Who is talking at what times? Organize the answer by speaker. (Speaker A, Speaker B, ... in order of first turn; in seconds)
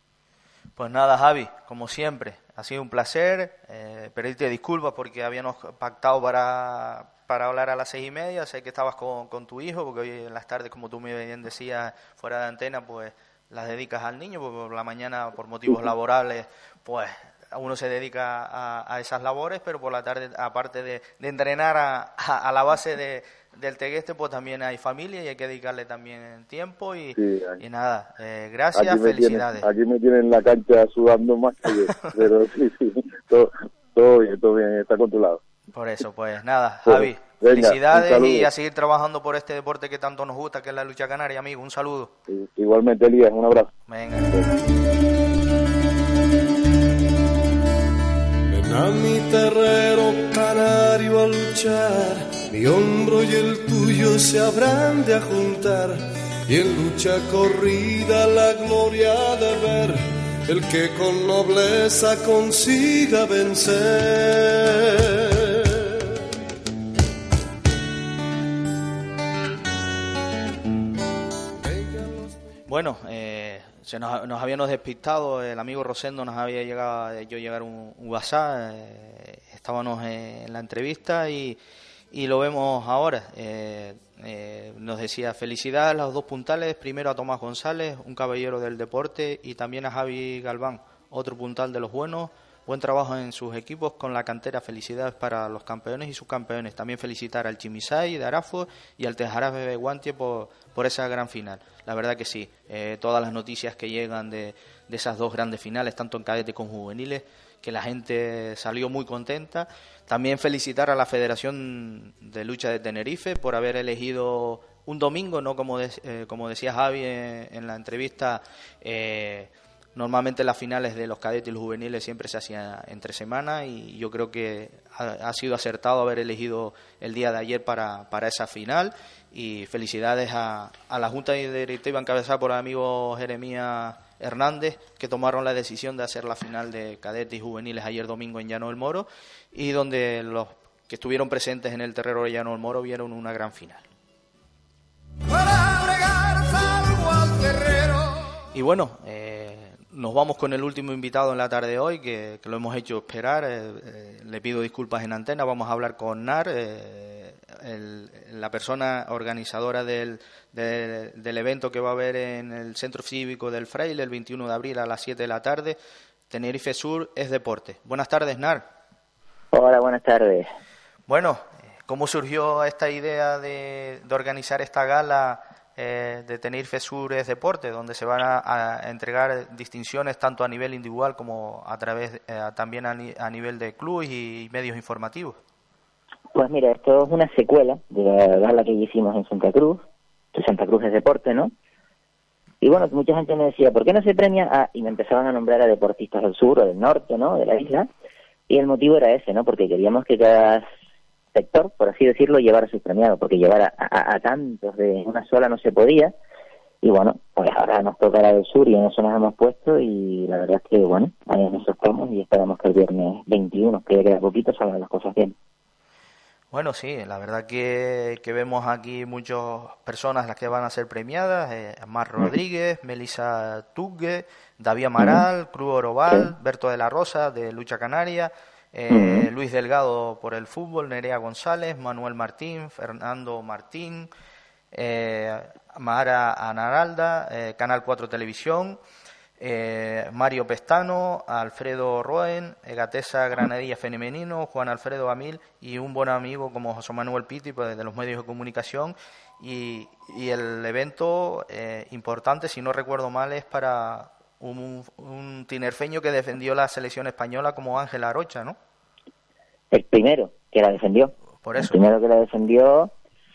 Speaker A: 0.8-29.6, 35.7-42.1, 43.9-44.5, 72.7-81.6, 82.1-143.8, 148.5-165.8, 166.3-168.7, 171.1-185.4, 216.5-234.1, 234.7-238.8, 239.4-258.6, 261.4-261.8
Speaker B: 27.1-27.6, 28.7-35.4, 36.9-38.5, 42.3-43.7
Speaker C: 48.5-65.9, 71.6-72.3
Speaker D: 169.5-170.5, 186.3-189.8, 190.3-191.5, 192.6-197.9, 198.5-200.6, 201.3-206.1, 206.8-215.3, 228.9-229.3, 259.7-262.9